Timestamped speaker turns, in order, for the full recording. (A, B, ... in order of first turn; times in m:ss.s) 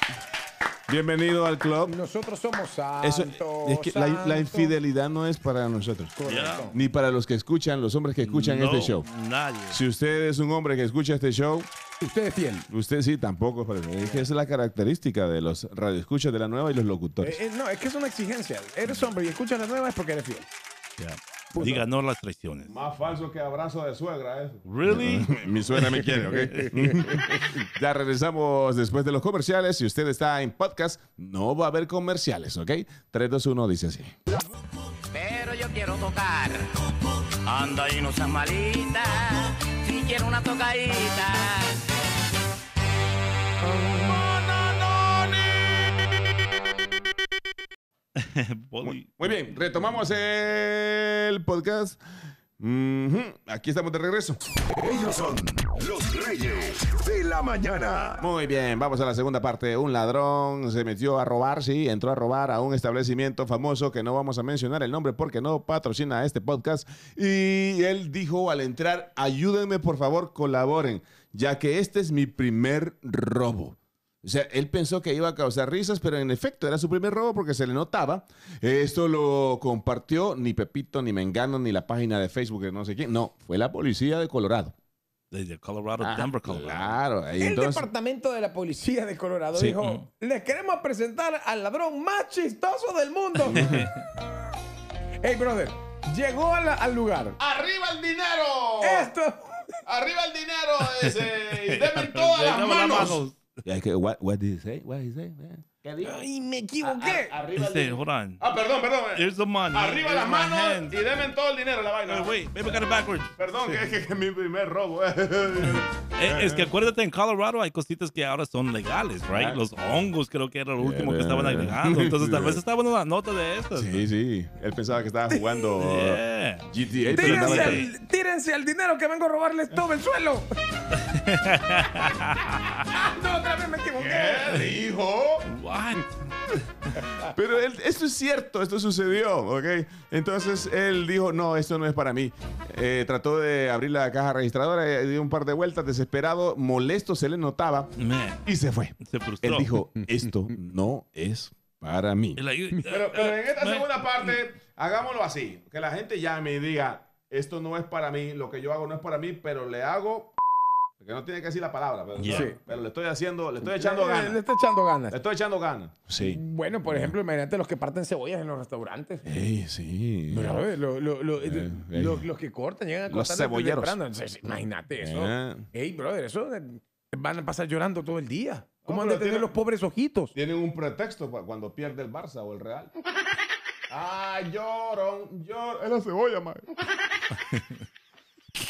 0:00.9-0:01.9 A
0:01.9-0:04.7 B
0:03.0-0:06.2 A
0:06.2-0:06.8 B
0:06.2-0:06.7 C
0:06.7-0:09.0 A
0:08.2-0:09.8 C
0:09.7-0:11.7 A
0:12.0-0:12.7 B
0:12.7-0:17.4 A
0:17.2-0:20.5 B
0:21.0-0:22.7 C
0:21.5-0:21.9 B
0:22.7-0:34.1 A
0:24.6-0:26.7 C
0:35.2-0:36.5 D
0:37.5-0:39.1 D
0:39.9-0:41.6 D
0:43.8-0:46.1 A
0:48.2-0:49.5 C
0:48.8-0:52.0 A
0:52.6-0:54.4 A
0:54.7-0:58.2 E
0:58.2-1:24.7 A
1:25.3-1:27.0 C
1:26.0-1:27.9 A
1:27.4-1:33.7 B
1:33.4-1:33.9 A
1:33.5-1:34.0 C
1:35.2-1:37.4 B
1:37.4-1:39.1 A
1:38.8-1:39.7 B
1:39.8-1:46.2 A
1:41.0-1:43.6 C
1:46.0-1:47.4 B
1:46.8-1:52.8 A
1:47.6-1:48.4 C
1:49.1-1:51.0 C
1:52.1-1:53.9 C
1:53.4-1:56.7 A
1:55.7-2:04.0 C
1:59.3-1:59.6 A
2:00.8-2:02.6 A
2:03.7-2:07.8 A
2:05.8-2:07.9 C
2:07.1-2:10.5 B
2:11.0-2:12.8 C
2:12.9-2:14.6 B
2:14.0-2:15.5 A
2:15.5-2:16.1 C
2:17.2-2:27.9 A
2:28.0-2:28.4 C
2:28.4-2:40.3 A
2:29.0-2:29.7 C
2:30.0-2:30.3 B
2:32.4-2:34.4 C
2:41.0-2:44.4 A
2:42.2-2:42.5 C
2:42.3-2:42.6 B
2:43.6-2:45.2 B
2:45.1-2:47.1 A
2:46.2-2:49.3 B
2:49.2-2:50.6 A
2:50.3-3:00.3 B
2:51.4-2:52.2 A
2:53.1-2:54.0 A
2:55.0-2:55.6 A
2:58.8-2:59.5 A
3:00.3-3:02.9 A
3:03.9-3:06.6 A